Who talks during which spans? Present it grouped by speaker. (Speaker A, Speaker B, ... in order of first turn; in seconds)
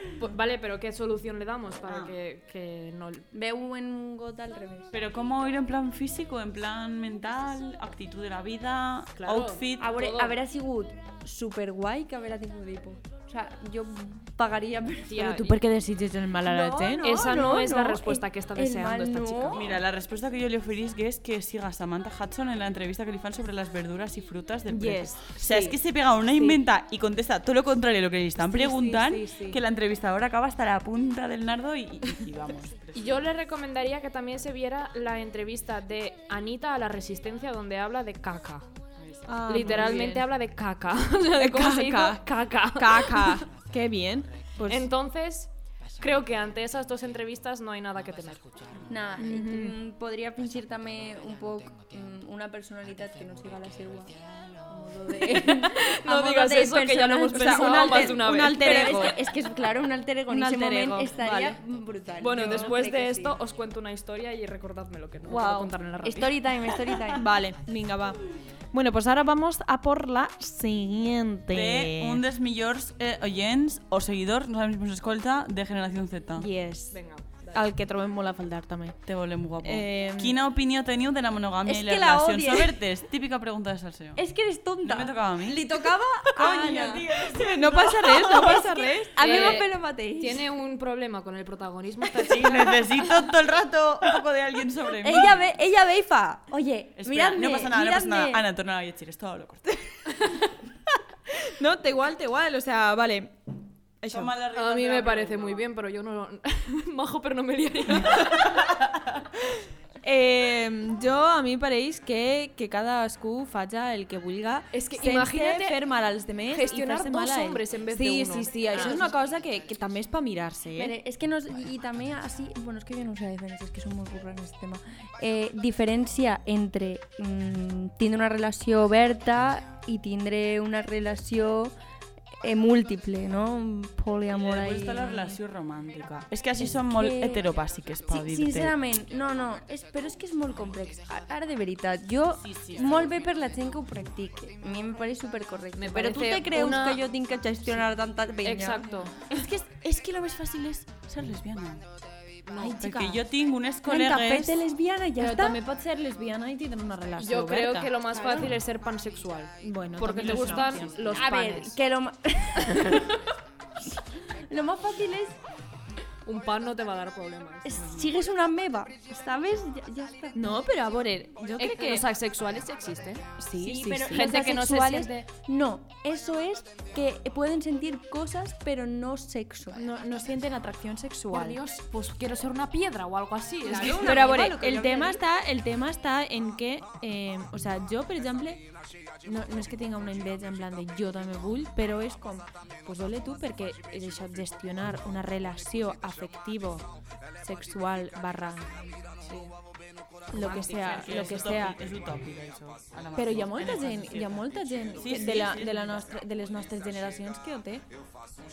Speaker A: 0.2-3.3, 9.2-10.4, 15.1-15.6, 17.0-19.8, 33.0-38.7, 39.5-43.4, 44.7-48.5, 54.9-59.1, 62.2-66.5, 76.9-77.6, 89.2-93.2, 104.5-108.6, 114.7-115.8, 116.5-119.1, 145.8-147.0, 148.4-149.2, 157.2-161.8, 166.2-167.8, 171.6-173.3, 173.9-175.3, 181.3-185.0, 199.2-199.5
Speaker B: 1.9-2.1, 4.9-9.9, 19.5-33.3, 39.0-40.0, 71.5-76.5, 79.1-84.2, 84.8-85.7, 86.4-89.0, 92.2-95.5, 97.0-100.3, 104.1-105.7, 108.0-109.0, 134.3-138.7, 142.4-143.2, 149.3-151.8, 152.6-154.6, 160.1-160.9, 167.8-168.1, 200.3-206.1
Speaker C: 3.3-4.9, 9.8-15.4, 16.4-19.8, 48.9-54.2, 54.7-63.4, 66.0-67.3, 81.7-82.8, 84.2-87.1, 88.4-90.5, 95.0-98.4, 120.8-131.7, 132.4-135.4, 136.6-137.5, 138.1-148.8, 153.8-155.6, 158.1-158.5, 161.1-163.1, 164.5-165.4, 167.7-170.4, 173.6-179.9, 183.7-185.1
Speaker D: 15.2-17.2, 24.7-25.7, 28.5-29.6, 39.3-40.3, 41.4-44.9, 49.2-49.8, 57.3-59.2, 60.3-61.6, 65.3-65.7, 67.2-72.2, 76.4-77.0, 77.5-79.0, 79.6-80.4, 87.3-89.5, 101.3-103.4, 104.0-104.3, 110.0-121.0, 152.6-153.2, 155.2-157.9, 159.6-161.1, 170.3-172.0, 173.4-174.3, 179.7-181.6, 183.8-188.6, 189.2-196.9, 197.4-198.7, 200.3-201.8, 203.2-207.9